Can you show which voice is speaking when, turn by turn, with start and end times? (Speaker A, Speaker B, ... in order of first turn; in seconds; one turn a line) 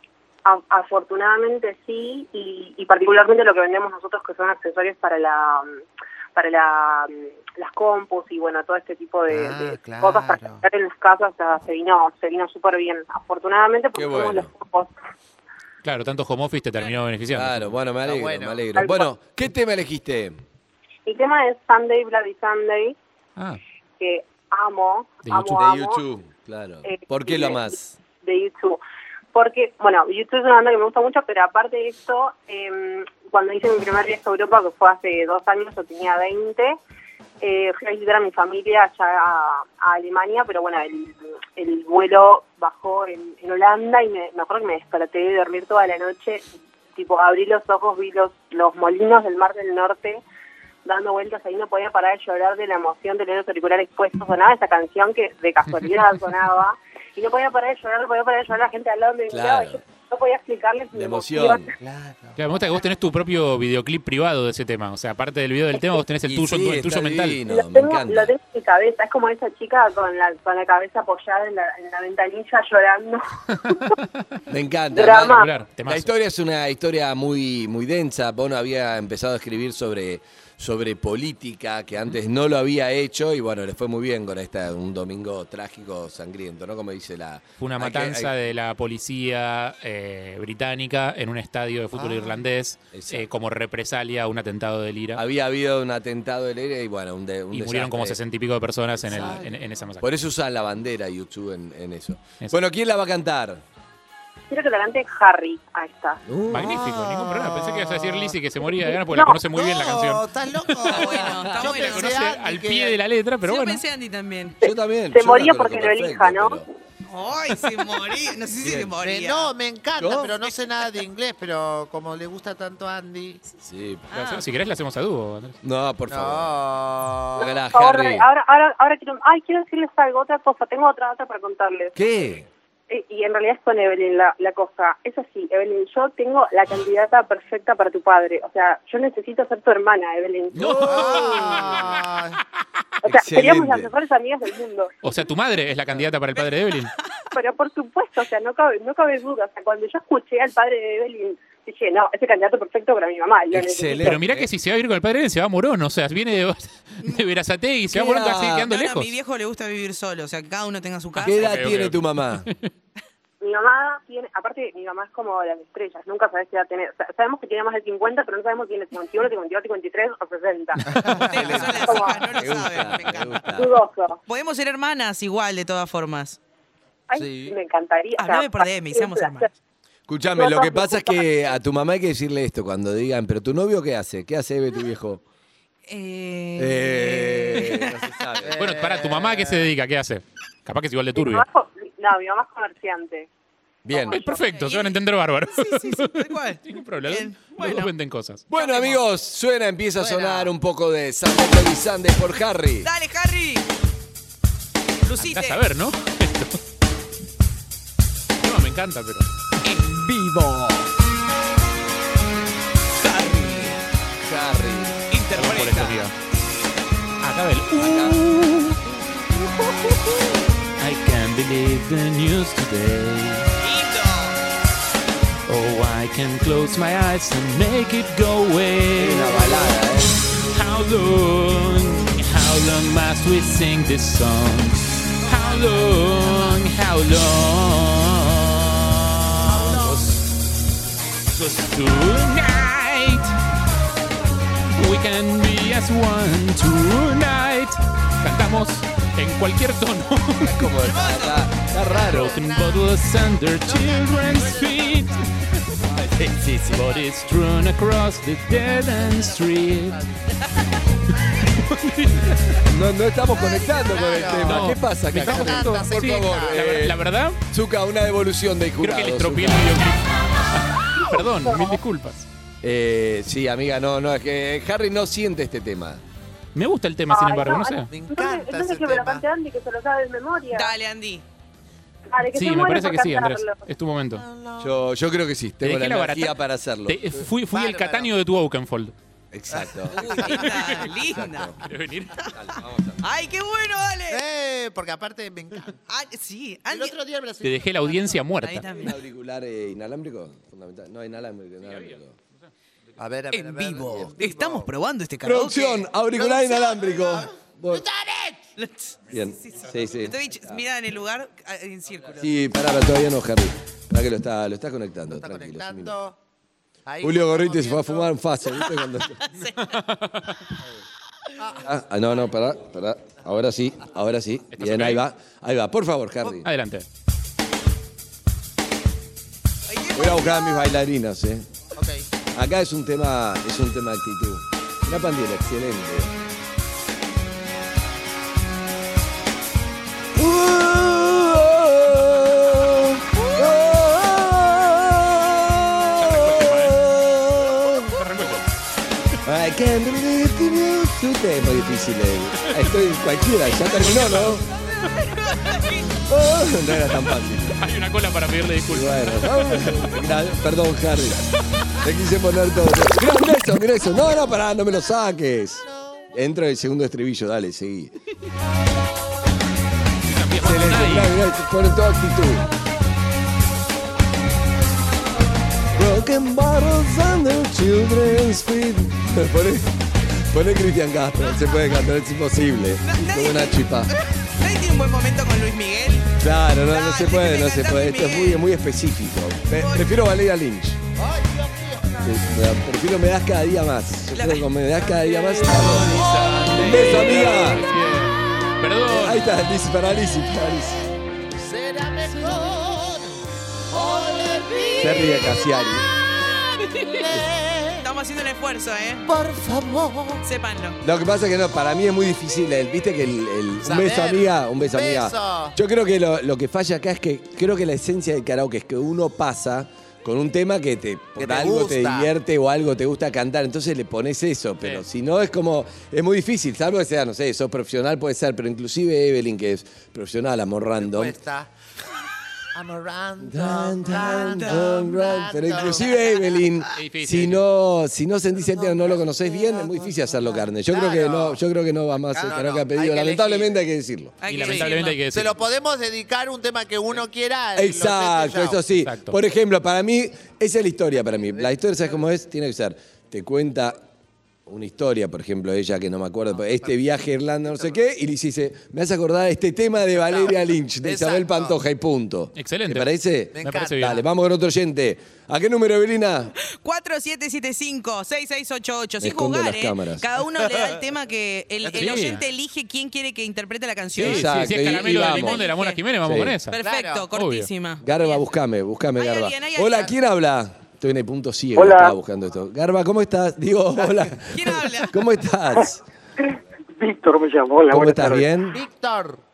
Speaker A: 0.4-5.8
Speaker A: 6.3-14.9
Speaker B: 9.3-10.6
Speaker C: 13.9-14.5
Speaker D: 15.8-17.8
Speaker C: 17.3-20.4
Speaker B: 18.0-18.8
Speaker A: 18.8-19.1
Speaker A: 21.1-22.9
Speaker A: 24.0-26.0
Speaker C: 25.5-27.9
Speaker A: 26.8-28.8
Speaker A: 29.3-36.8
Speaker A: 37.4-46.4
Speaker A: 47.0-50.2
Speaker A: 50.8-61.7
Speaker C: 59.3-59.8
Speaker C: 60.9-61.7
Speaker B: 61.8-62.4
Speaker D: 62.4-67.4
Speaker C: 66.2-68.3
Speaker A: 67.5-73.9
Speaker C: 74.5-88.3
Speaker A: 74.9-75.5
Speaker D: 75.2-76.0
Speaker D: 87.6-95.2
Speaker B: 91.9-92.4
Speaker C: 92.9-93.4
Speaker C: 95.1-98.2
Speaker D: 97.5-100.0
Speaker C: 99.0-99.4
Speaker B: 99.1-99.6
Speaker C: 100.0-103.6
Speaker A: 104.5-106.2
Speaker C: 106.2-106.8
Speaker D: 106.5-110.2
Speaker B: 106.5-108.9
Speaker A: 109.1-109.4
Speaker B: 109.5-113.0
Speaker D: 110.8-113.8
Speaker E: 110.8-112.2
Speaker E: 113.4-114.5
Speaker C: 114.6-116.6
Speaker A: 115.1-116.6
Speaker E: 117.1-119.5
Speaker C: 118.6-118.9
Speaker B: 119.0-123.4
Speaker C: 120.0-120.4
Speaker C: 123.6-124.1
Speaker E: 124.1-124.4
Speaker D: 124.1-125.6
Speaker C: 125.6-126.5
Speaker B: 126.1-127.5
Speaker C: 127.4-128.3
Speaker A: 127.4-131.9
Speaker C: 131.9-132.5
Speaker A: 132.9-141.4
Speaker D: 140.5-141.8
Speaker C: 140.6-141.2
Speaker B: 140.8-142.4
Speaker A: 143.0-144.9
Speaker C: 143.0-143.9
Speaker D: 145.0-146.9
Speaker A: 147.3-154.2
Speaker C: 153.5-154.5
Speaker D: 153.9-159.1
Speaker C: 157.9-158.7
Speaker E: 158.7-161.5
Speaker C: 161.2-162.4
Speaker D: 161.3-162.6
Speaker A: 163.4-172.2
Speaker B: 171.0-171.2
Speaker E: 171.2-173.4
Speaker C: 171.3-173.7
Speaker A: 173.5-174.2
Speaker E: 174.3-176.4
Speaker A: 177.1-179.5
Speaker C: 177.1-177.5
Speaker E: 178.2-179.5
Speaker C: 180.1-185.2
Speaker A: 180.3-181.3
Speaker E: 185.9-188.0
Speaker C: 186.6-188.6
Speaker B: 188.4-189.7
Speaker D: 188.6-191.4
Speaker A: 191.1-193.3
Speaker C: 193.8-194.2
Speaker A: 193.9-194.4
Speaker D: 194.1-198.4
Speaker E: 194.3-197.9
Speaker C: 198.5-202.9
Speaker E: 198.5-199.0
Speaker B: 200.0-200.5
Speaker E: 202.8-203.7
Speaker E: 205.0-205.6
Speaker D: 205.2-206.6
Speaker D: 208.4-209.3
Speaker E: 209.6-210.9
Speaker E: 213.0-213.8
Speaker C: 214.2-215.7
Speaker E: 215.1-216.0
Speaker D: 215.3-216.1
Speaker D: 217.2-218.8
Speaker C: 217.7-218.2
Speaker D: 220.8-223.5
Speaker E: 223.6-224.4
Speaker D: 225.5-229.7
Speaker C: 229.0-230.1
Speaker D: 230.4-240.2
Speaker B: 239.5-240.0
Speaker D: 241.3-243.4
Speaker D: 244.8-250.7
Speaker C: 250.4-252.4
Speaker B: 250.8-253.0
Speaker D: 252.0-255.3
Speaker B: 253.6-255.2
Speaker C: 255.9-257.0
Speaker D: 256.7-260.0
Speaker B: 258.7-260.3
Speaker D: 261.5-262.6
Speaker C: 262.6-269.8
Speaker B: 263.3-266.8
Speaker D: 264.4-267.4
Speaker D: 268.8-272.3
Speaker A: 271.0-271.8
Speaker C: 272.6-276.0
Speaker D: 276.5-277.9
Speaker A: 277.1-280.7
Speaker B: 277.9-279.2
Speaker E: 280.5-281.2
Speaker A: 282.1-283.6
Speaker D: 282.3-284.2
Speaker B: 284.1-284.8
Speaker C: 284.6-287.1
Speaker D: 285.6-288.9
Speaker B: 287.5-288.1
Speaker C: 289.3-291.6
Speaker B: 289.5-290.4
Speaker E: 290.0-291.5
Speaker D: 291.6-292.2
Speaker C: 292.3-293.0
Speaker E: 293.0-294.2
Speaker B: 294.1-295.8
Speaker E: 295.9-296.9
Speaker B: 296.7-298.3
Speaker D: 297.4-298.7
Speaker E: 298.4-299.0
Speaker C: 298.8-302.1
Speaker B: 303.0-304.7
Speaker E: 303.3-305.8
Speaker C: 305.2-307.8
Speaker B: 306.1-308.5
Speaker E: 308.6-312.3
Speaker C: 309.1-310.6
Speaker C: 312.2-315.9
Speaker B: 315.1-316.2
Speaker B: 316.9-318.1
Speaker C: 317.0-319.2
Speaker E: 319.2-319.7
Speaker D: 319.6-320.4
Speaker B: 321.4-321.7
Speaker C: 321.6-326.4
Speaker D: 324.5-325.0
Speaker D: 326.4-326.9
Speaker E: 329.7-330.7
Speaker C: 329.9-331.5
Speaker B: 331.8-332.1
Speaker C: 332.3-336.1
Speaker C: 340.1-348.0
Speaker D: 345.9-346.8
Speaker D: 347.9-348.4
Speaker C: 349.2-354.4
Speaker D: 353.6-354.4
Speaker E: 354.6-356.0
Speaker C: 356.1-357.6
Speaker D: 357.5-359.8
Speaker C: 358.7-367.9
Speaker D: 370.1-371.1
Speaker C: 370.4-372.4
Speaker C: 375.7-383.9
Speaker E: 382.8-386.1
Speaker C: 386.2-390.8
Speaker E: 386.7-388.4
Speaker E: 389.5-389.9
Speaker B: 391.0-392.2
Speaker C: 392.0-397.7
Speaker E: 394.1-397.0
Speaker D: 395.5-399.2
Speaker C: 398.9-400.8
Speaker B: 401.3-405.7
Speaker C: 404.8-405.9
Speaker B: 406.9-407.9
Speaker E: 407.8-409.1
Speaker B: 409.1-410.2
Speaker E: 410.2-410.8
Speaker C: 410.8-431.1
Speaker B: 413.6-415.5
Speaker B: 421.2-422.1
Speaker B: 430.8-431.5
Speaker B: 432.5-436.7
Speaker C: 433.2-444.2
Speaker E: 434.0-434.7
Speaker D: 436.8-437.4
Speaker B: 438.4-441.4
Speaker B: 442.1-443.5
Speaker E: 444.2-445.0
Speaker D: 444.2-445.4
Speaker B: 444.4-448.6
Speaker C: 447.5-453.8
Speaker D: 448.8-449.1
Speaker C: 454.5-466.3
Speaker B: 456.3-456.7
Speaker B: 460.0-461.6
Speaker D: 462.4-462.9
Speaker B: 463.3-464.0
Speaker D: 463.4-464.0
Speaker E: 466.4-475.8
Speaker C: 469.0-470.1
Speaker B: 471.6-472.2
Speaker D: 471.7-472.2
Speaker D: 473.9-476.6
Speaker C: 474.0-475.5
Speaker C: 476.0-476.4
Speaker E: 476.5-478.2
Speaker B: 476.6-477.1
Speaker D: 477.1-477.5
Speaker C: 477.8-485.8
Speaker E: 479.0-479.9
Speaker F: 481.6-481.9
Speaker E: 484.3-484.9
Speaker F: 486.2-488.3
Speaker C: 487.7-488.6
Speaker B: 488.5-489.2